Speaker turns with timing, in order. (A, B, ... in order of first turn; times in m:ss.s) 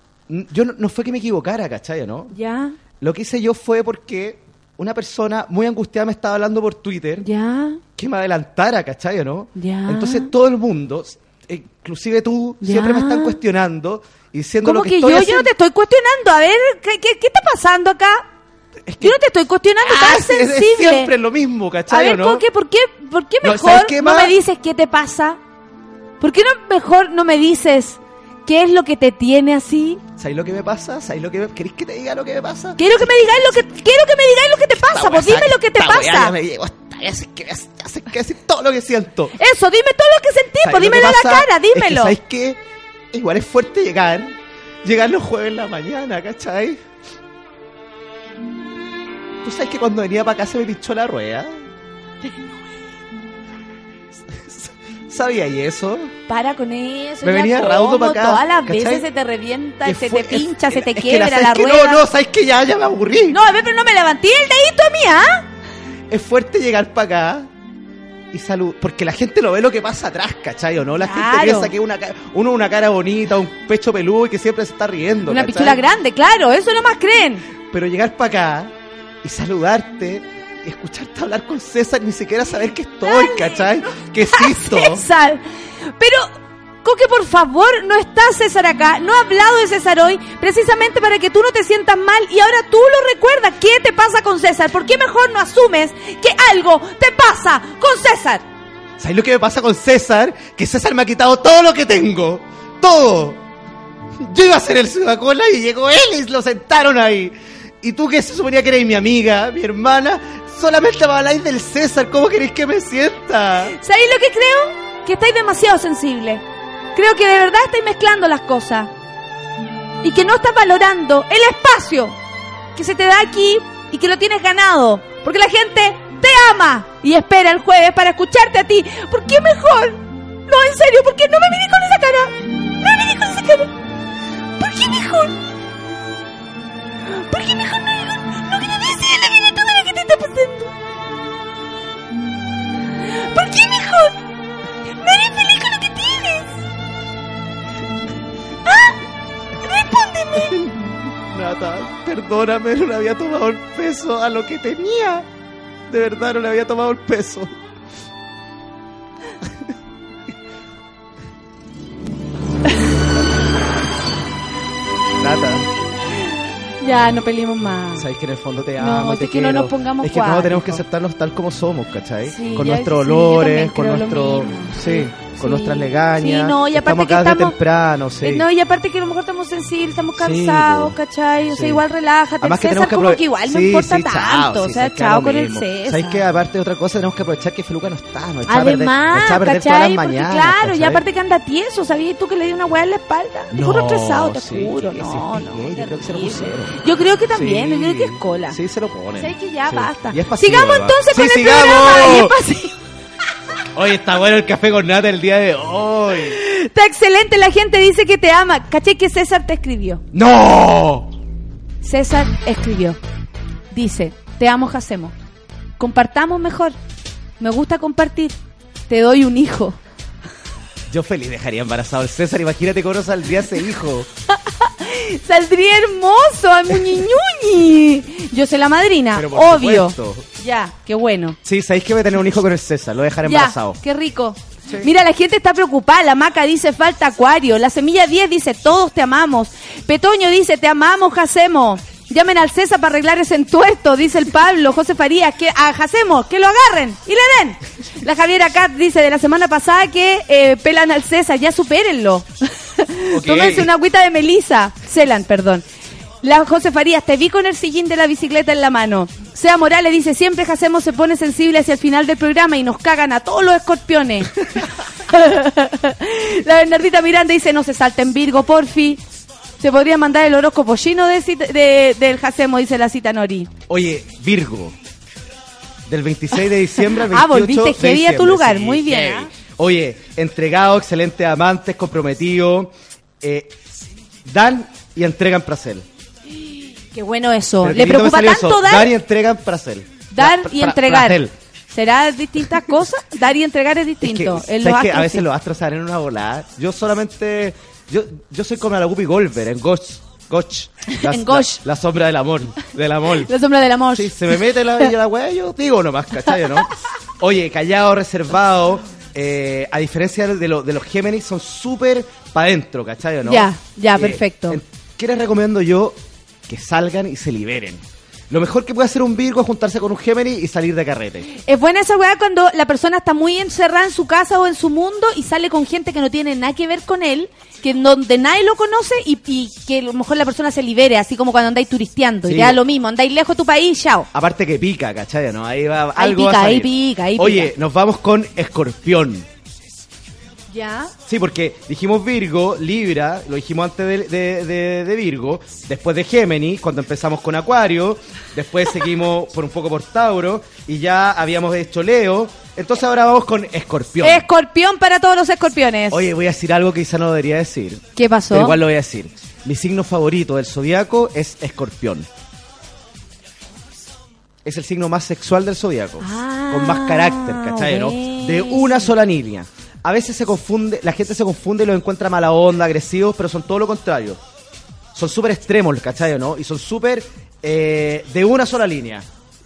0:00.3-0:02.4 A
0:02.3-0:02.8 B
0:03.0-0:07.3 A
0:07.2-0:07.8 B
0:08.0-0:15.5 A
0:09.6-0:10.3 B
0:12.6-0:13.4 B
0:14.6-0:18.3 B
0:18.9-0:19.2 A
0:19.0-0:21.1 B
0:19.8-0:22.4 A
0:21.9-0:25.4 B
0:23.4-0:24.4 A
0:26.2-0:30.0 B
0:30.2-0:33.7 A
0:32.8-0:36.3 B
0:34.7-0:39.4 A
0:39.4-0:42.2 B
0:40.6-0:42.6 A
0:43.1-0:46.8 A
0:49.4-0:51.6 A
0:54.3-0:56.1 A
0:56.3-1:02.0 B
0:57.2-0:59.1 A
0:59.8-1:03.4 A
1:03.3-1:05.4 B
1:06.1-1:07.5 A
1:08.3-1:15.8 A
1:11.0-1:11.7 B
1:15.3-1:17.4 B
1:17.7-1:18.7 A
1:19.2-1:25.1 A
1:23.0-1:25.4 B
1:26.0-1:26.3 B
1:26.8-1:38.4 B
1:39.0-1:43.4 A
1:44.2-1:53.7 A
1:53.7-1:56.4 B
1:57.0-1:58.9 B
2:00.0-2:02.2 B
2:02.8-2:13.7 B
2:14.6-2:15.4 B
2:17.1-2:20.7 B
2:23.1-2:24.2 B
2:25.0-2:26.5 B
2:28.7-2:29.0 B
2:29.6-2:30.6 B
2:30.4-2:35.3 A
2:35.9-2:37.5 A
2:45.2-2:45.7 A
2:46.8-2:48.1 B
2:48.0-2:58.5 A
2:48.8-2:50.8 B
2:52.2-2:57.6 B
2:58.2-3:06.2 B
3:00.2-3:01.0 A
3:01.5-3:01.8 A
3:02.4-3:11.0 A
3:08.5-3:18.6 B
3:13.5-3:16.8 A
3:17.3-3:22.4 A
3:19.2-3:22.7 B
3:23.7-3:26.4 A
3:26.3-3:30.0 B
3:30.1-3:31.1 A
3:31.8-3:33.0 B
3:33.7-3:35.1 B
3:35.8-3:36.8 B
3:37.4-3:38.4 B
3:38.9-3:39.8 B
3:40.9-3:44.1 A
3:44.4-3:51.4 B
3:49.1-3:50.3 A
3:51.4-3:53.8 A
3:53.2-4:15.6 B
3:54.7-3:54.9 A
4:13.1-4:13.7 A
4:16.2-4:24.4 B
4:25.1-4:29.0 B
4:29.6-4:33.5 B
4:33.7-4:34.8 A
4:35.9-4:43.5 A
4:36.9-4:39.3 B
4:44.2-4:45.8 A
4:46.9-4:48.9 B
4:47.6-4:51.3 A
4:50.1-4:51.2 B
4:51.7-4:55.2 B
4:54.0-5:03.3 A
5:00.9-5:01.6 B
5:03.3-5:04.9 B
5:03.9-5:21.3 A
5:13.2-5:14.6 B
5:21.2-5:34.1 B
5:32.2-5:32.6 A
5:34.1-5:39.2 A
5:36.0-5:37.5 B
5:40.5-5:40.9 B
5:41.1-5:54.3 A
5:54.0-5:56.1 B
5:55.9-6:02.1 A
5:58.0-5:58.6 B
6:04.4-6:14.2 A
6:06.0-6:08.9 B
6:15.0-6:19.1 A